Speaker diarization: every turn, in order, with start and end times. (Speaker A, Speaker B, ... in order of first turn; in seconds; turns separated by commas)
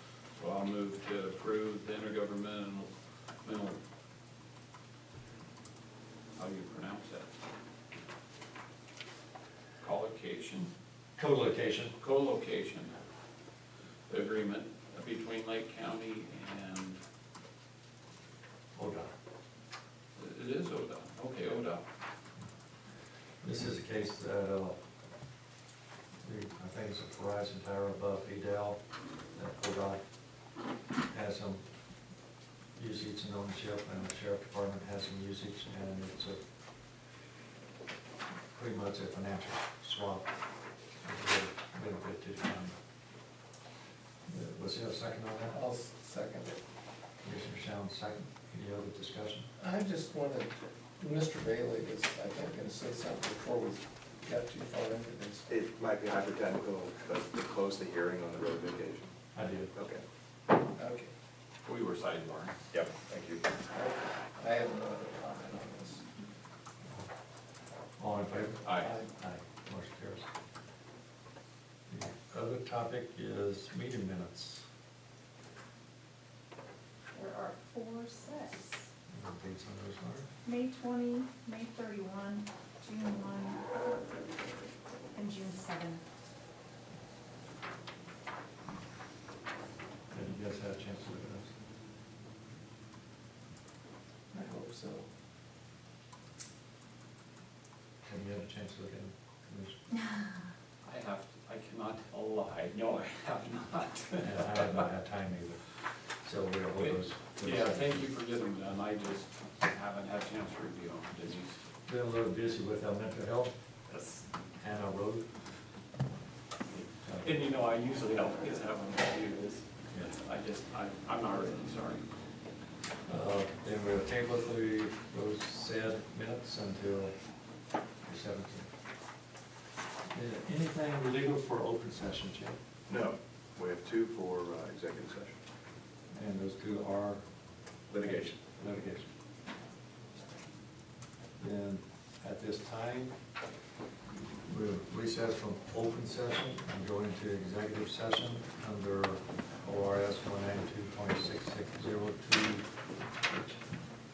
Speaker A: 0.3-3.8, Speaker A: 6.4-7.3, Speaker A: 9.8-10.7, Speaker B: 11.2-12.0, Speaker A: 12.0-12.9, Speaker A: 14.1-17.0, Speaker B: 18.8-19.1, Speaker A: 20.2-21.9, Speaker B: 23.4-24.8, Speaker B: 26.2-28.8, Speaker B: 29.3-30.0, Speaker B: 31.1-31.6, Speaker B: 32.8-36.4, Speaker B: 38.5-40.3, Speaker B: 41.0-42.7, Speaker B: 44.3-45.6, Speaker C: 45.5-46.6, Speaker B: 47.2-49.5, Speaker C: 49.6-55.5, Speaker D: 55.5-59.1, Speaker B: 59.3-59.7, Speaker D: 59.8-60.0, Speaker C: 60.8-61.1, Speaker A: 61.6-62.6, Speaker D: 62.7-63.4, Speaker C: 63.7-66.0, Speaker B: 68.0-70.3, Speaker A: 68.6-68.9, Speaker B: 71.9-74.7, Speaker E: 77.1-78.9, Speaker B: 79.1-80.3, Speaker E: 80.4-83.6, Speaker E: 85.1-86.0, Speaker B: 90.1-91.5, Speaker C: 94.3-95.1, Speaker B: 98.0-99.8, Speaker E: 99.9-100.3, Speaker A: 100.8-104.9, Speaker B: 104.2-105.7, Speaker B: 106.2-108.1, Speaker A: 106.8-111.6, Speaker B: 111.9-113.5, Speaker A: 113.9-114.3, Speaker B: 114.6-115.3, Speaker B: 117.0-117.4, Speaker A: 117.2-122.0, Speaker B: 123.0-127.1, Speaker B: 128.1-128.7, Speaker B: 130.1-132.6, Speaker D: 132.9-135.4, Speaker B: 136.1-137.2, Speaker D: 137.9-138.3, Speaker B: 137.9-139.1, Speaker B: 141.4-143.1, Speaker B: 144.4-152.7, Speaker B: 153.2-153.6